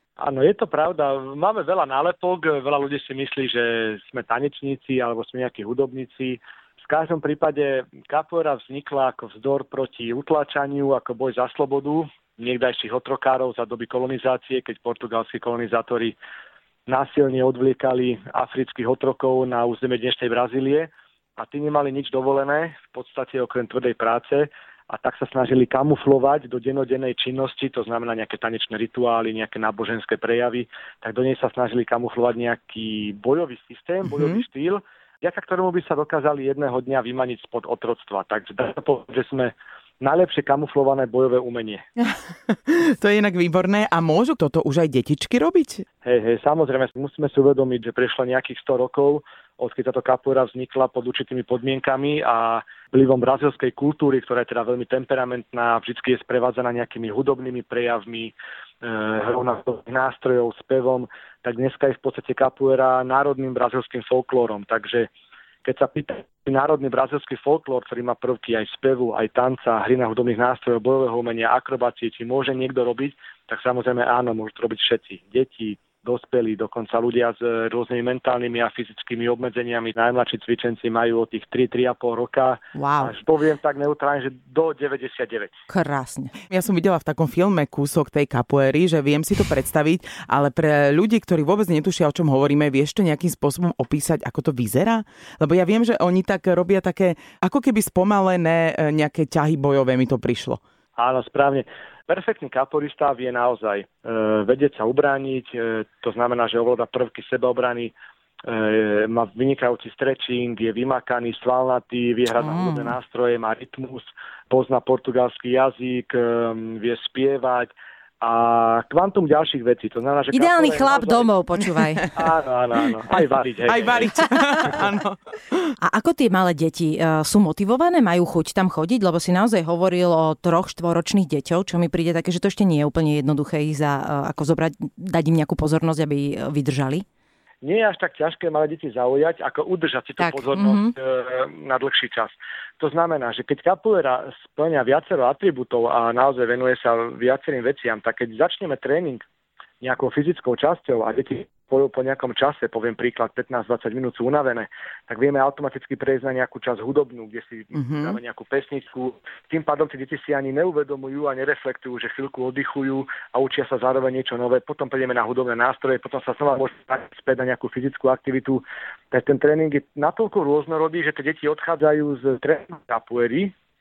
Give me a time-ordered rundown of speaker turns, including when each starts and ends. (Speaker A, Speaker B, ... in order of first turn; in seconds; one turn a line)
Speaker A: 0.2-16.2
Speaker A: 16.9-41.8
Speaker B: 34.1-34.4
Speaker B: 42.5-45.9
Speaker A: 46.0-65.1
Speaker A: 65.6-85.7
Speaker C: 82.8-83.1
Speaker C: 85.7-86.3
Speaker B: 86.5-100.6
Speaker A: 101.0-107.9
Speaker A: 108.4-121.3
Speaker C: 112.3-113.0
Speaker C: 120.3-122.1
Speaker A: 122.1-124.2
Speaker B: 123.7-125.8
Speaker C: 125.8-137.0
Speaker A: 137.6-149.2
Speaker C: 140.2-140.9
Speaker A: 149.8-173.5
Speaker B: 157.7-158.2